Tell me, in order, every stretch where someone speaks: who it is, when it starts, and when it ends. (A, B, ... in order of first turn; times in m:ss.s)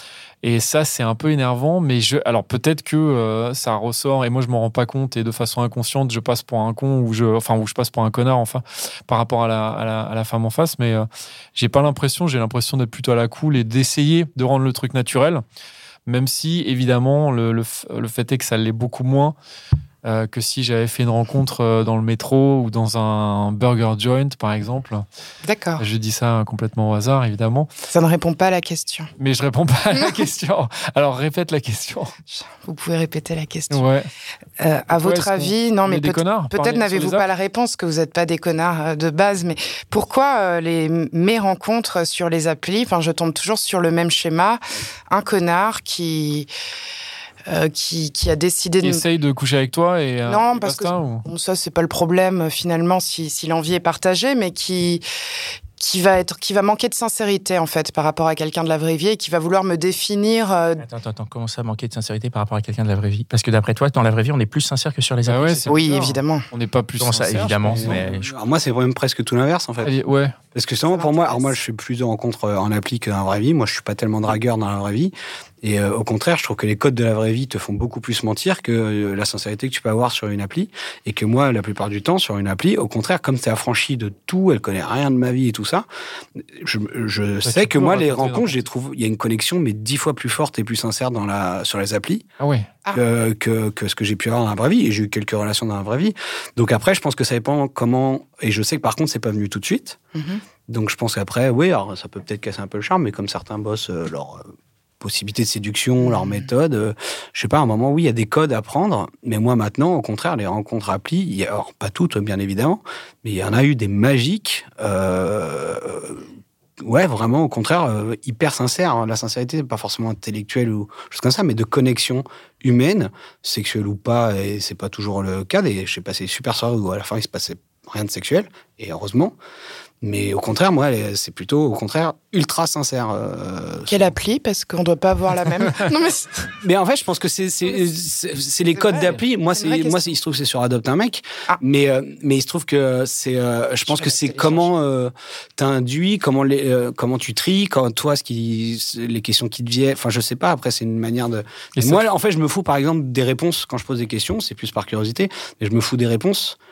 0:00.4-0:15.4 A
0:16.0-0:19.4 A
0:20.0-0:25.0 A
0:25.4-0:25.8 B
0:25.8-0:27.7 A
0:27.9-0:29.1 B
0:29.2-0:32.1 A
0:29.9-0:30.2 B
0:32.3-0:33.8 B
0:33.7-0:34.1 A
0:34.6-0:44.6 B
0:34.9-0:37.3 A
0:45.1-0:46.5 B
0:47.5-0:49.0 B
0:48.8-0:51.2 A
0:50.2-0:55.0 B
0:55.8-1:00.8 B
1:00.8-1:05.8 C
1:05.2-1:08.0 A
1:05.7-1:06.5 B
1:07.0-1:08.3 C
1:07.7-1:09.9 D
1:09.8-1:10.4 A
1:10.5-1:25.8 D
1:10.9-1:11.6 B
1:26.6-1:32.3 D
1:27.4-1:28.6 A
1:32.4-1:32.7 A
1:32.9-1:40.0 D
1:40.1-1:40.4 B
1:40.7-1:44.4 D
1:45.0-1:56.2 D
1:46.0-1:46.4 B
1:56.8-2:09.4 D
2:10.0-2:14.0 D
2:13.9-2:16.6 B
2:16.6-2:36.6 D
2:18.7-2:20.1 B
2:23.8-2:24.7 B
2:31.7-2:32.0 A